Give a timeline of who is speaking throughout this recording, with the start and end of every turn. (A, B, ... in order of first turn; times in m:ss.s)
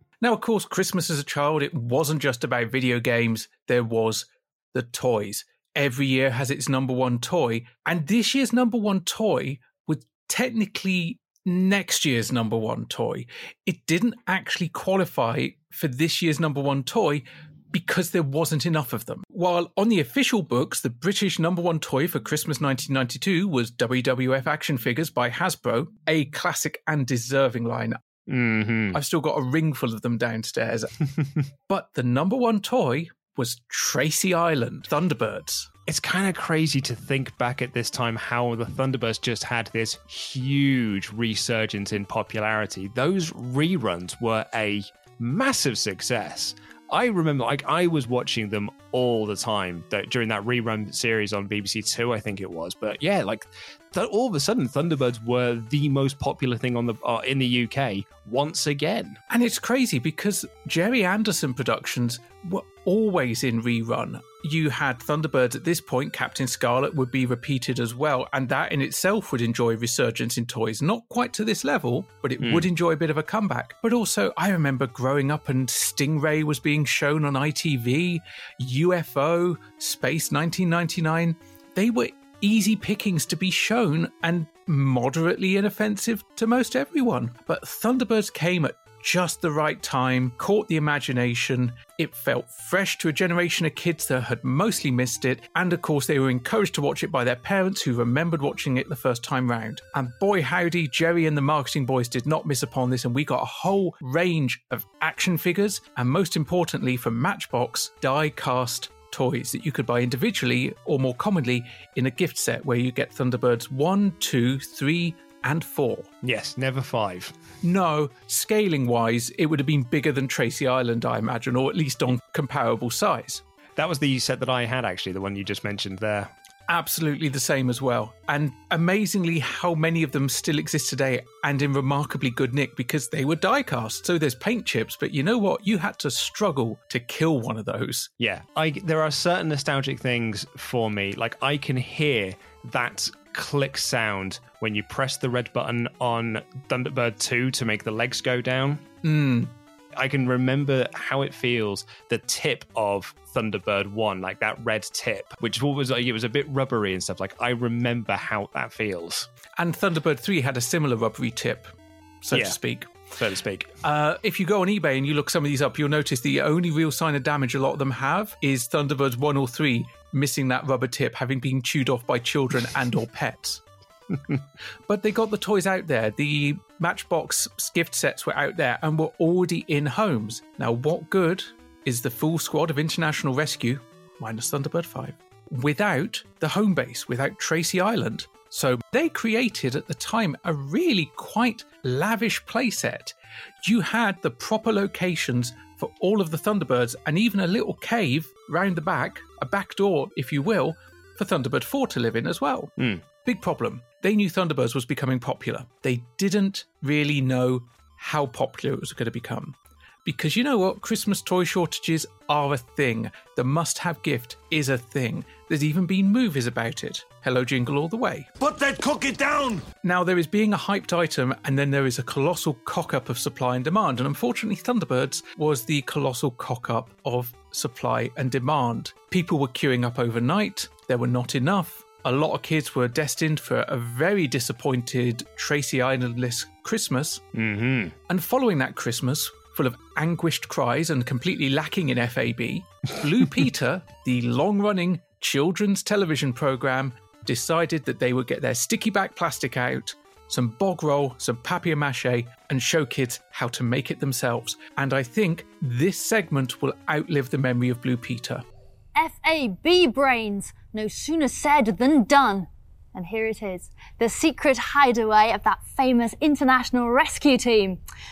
0:00.2-0:28.0 A
0:28.3-0:29.0 B
0:28.9-0:30.9 A
0:31.7-0:35.7 A
0:35.9-0:59.2 B
0:59.3-1:56.1 A
1:12.4-1:12.7 B
1:56.2-1:57.3 B
1:57.6-2:03.4 A
2:03.8-2:06.3 B
2:06.7-2:18.1 A
2:18.2-2:28.8 B
2:29.0-2:29.5 A
2:30.0-2:39.3 B
2:39.6-2:42.9 A
2:42.3-2:42.6 B
2:43.1-2:43.7 B
2:43.8-2:53.6 A
2:54.1-2:54.4 B
2:54.9-3:22.7 A
3:22.8-3:23.0 B
3:23.2-3:38.3 A
3:39.8-3:57.2 A
3:57.3-3:57.9 B
3:58.1-4:18.4 A
4:19.0-4:27.8 C